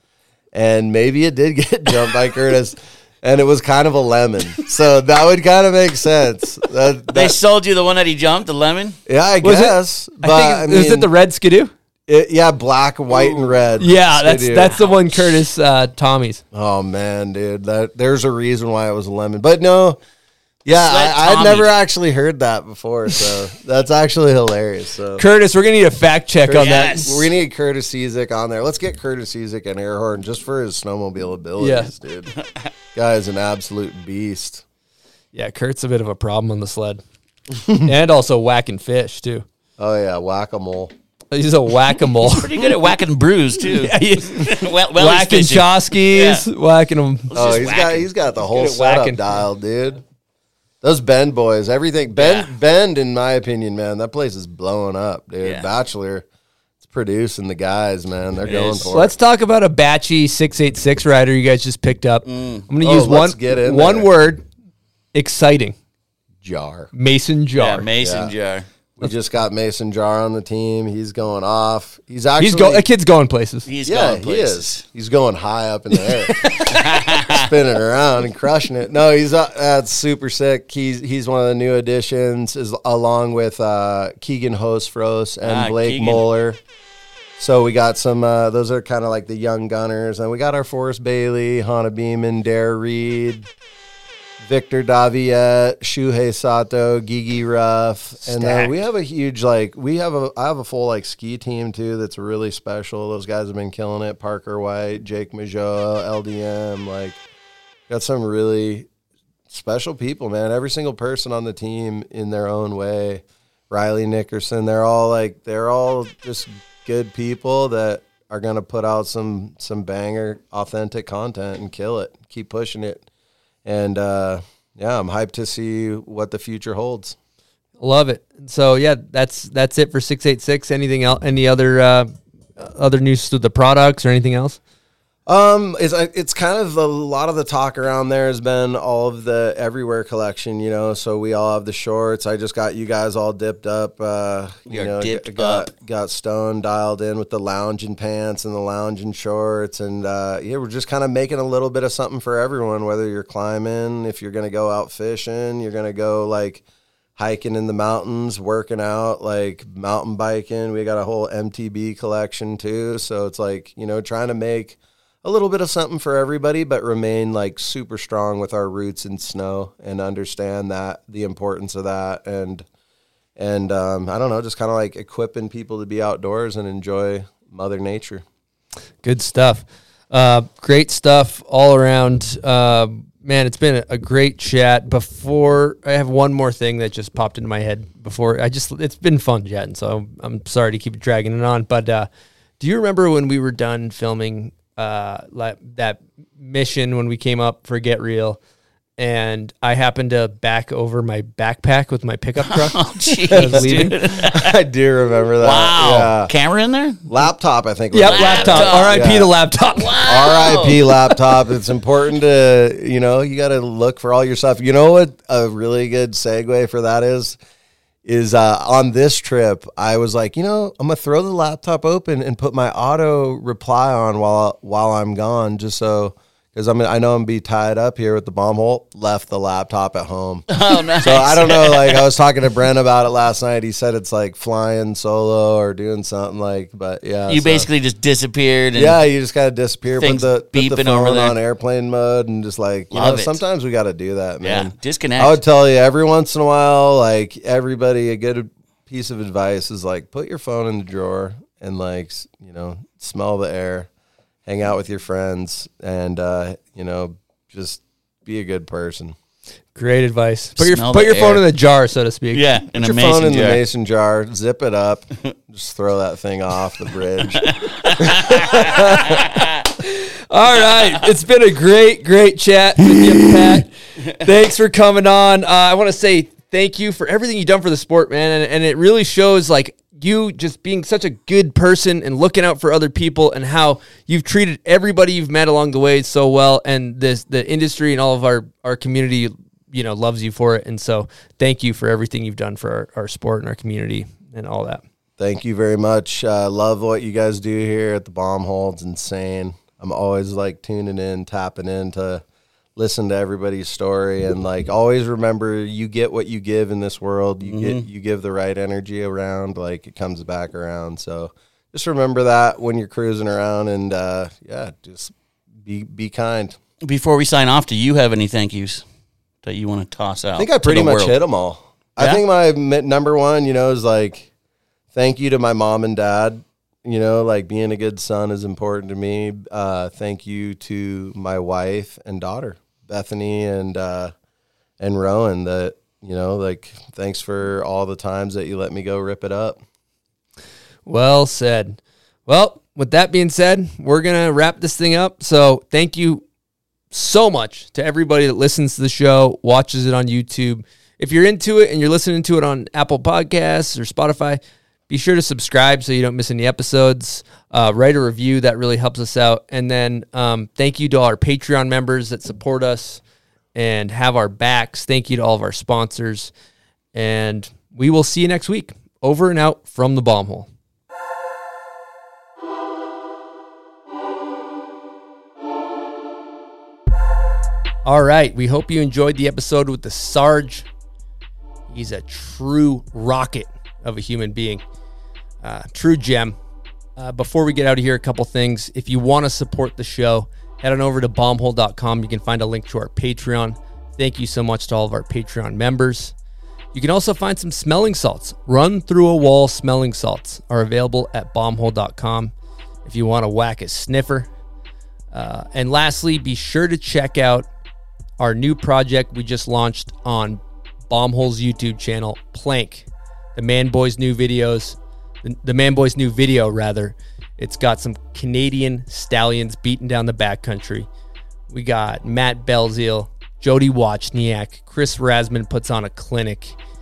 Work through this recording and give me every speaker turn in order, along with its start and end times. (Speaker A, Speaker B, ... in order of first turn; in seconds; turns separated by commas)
Speaker A: 0.5-7.3, Speaker B: 7.1-9.0, Speaker A: 9.1-11.1, Speaker C: 9.4-11.7, Speaker A: 12.1-14.7, Speaker C: 13.8-16.4, Speaker B: 14.7-15.3, Speaker A: 16.5-20.0, Speaker A: 20.6-25.2, Speaker B: 20.8-21.7, Speaker C: 25.2-27.1, Speaker A: 26.4-32.3, Speaker B: 26.6-27.1, Speaker C: 31.6-31.9, Speaker B: 32.3-32.7, Speaker A: 32.9-34.6, Speaker C: 35.3-37.0, Speaker C: 37.8-39.4, Speaker A: 39.8-40.9, Speaker C: 41.3-42.5, Speaker B: 42.2-46.4, Speaker C: 43.8-47.3, Speaker B: 47.3-48.0, Speaker A: 47.3-50.0, Speaker C: 48.5-49.4, Speaker A: 50.8-56.2, Speaker B: 52.1-52.5, Speaker B: 55.4-55.7, Speaker A: 56.8-59.1, Speaker B: 58.4-58.9, Speaker C: 58.9-64.4, Speaker B: 62.2-62.7, Speaker A: 62.8-64.1, Speaker C: 65.1-65.7, Speaker A: 66.4-66.9, Speaker C: 66.9-67.8, Speaker B: 67.5-68.7, Speaker A: 68.0-68.3, Speaker A: 69.0-72.8, Speaker C: 72.4-73.7, Speaker B: 73.7-74.8, Speaker A: 73.8-86.6, Speaker B: 76.4-77.5, Speaker B: 85.4-86.2, Speaker A: 87.4-93.5, Speaker A: 94.4-107.2, Speaker C: 98.2-98.7, Speaker A: 107.9-108.9, Speaker A: 109.5-123.0, Speaker A: 123.6-127.2, Speaker C: 127.8-134.6, Speaker A: 135.2-156.6, Speaker B: 144.7-145.7, Speaker A: 157.2-172.6, Speaker A: 173.4-178.2, Speaker C: 179.0-192.1, Speaker C: 192.6-198.4, Speaker C: 199.0-203.9, Speaker B: 202.5-204.5, Speaker A: 203.3-206.3, Speaker B: 205.4-207.0, Speaker A: 207.1-209.3, Speaker C: 207.9-210.0, Speaker B: 208.0-209.1, Speaker B: 209.7-211.0, Speaker A: 210.0-217.4, Speaker A: 218.0-237.7, Speaker B: 230.5-232.1, Speaker B: 237.3-239.0, Speaker A: 238.8-253.9, Speaker B: 240.0-241.3, Speaker B: 242.9-243.4, Speaker B: 244.4-245.4, Speaker A: 254.4-259.1, Speaker C: 259.7-262.4, Speaker B: 260.6-261.4, Speaker B: 262.3-263.6, Speaker A: 262.8-269.2, Speaker B: 267.4-269.5, Speaker C: 269.8-294.8, Speaker A: 295.2-302.2, Speaker A: 302.8-316.6, Speaker B: 307.5-307.8, Speaker B: 316.8-318.8, Speaker B: 319.4-321.1, Speaker A: 320.4-324.3, Speaker A: 324.9-334.1, Speaker A: 334.8-339.6, Speaker C: 340.9-346.2, Speaker C: 346.9-363.0, Speaker C: 363.5-366.3, Speaker C: 366.9-370.5, Speaker C: 377.8-380.7, Speaker C: 381.7-384.6, Speaker C: 385.4-386.4, Speaker C: 387.0-396.1, Speaker C: 396.7-402.3, Speaker C: 402.8-404.3, Speaker C: 405.1-407.5, Speaker C: 408.2-420.9, Speaker C: 421.5-426.6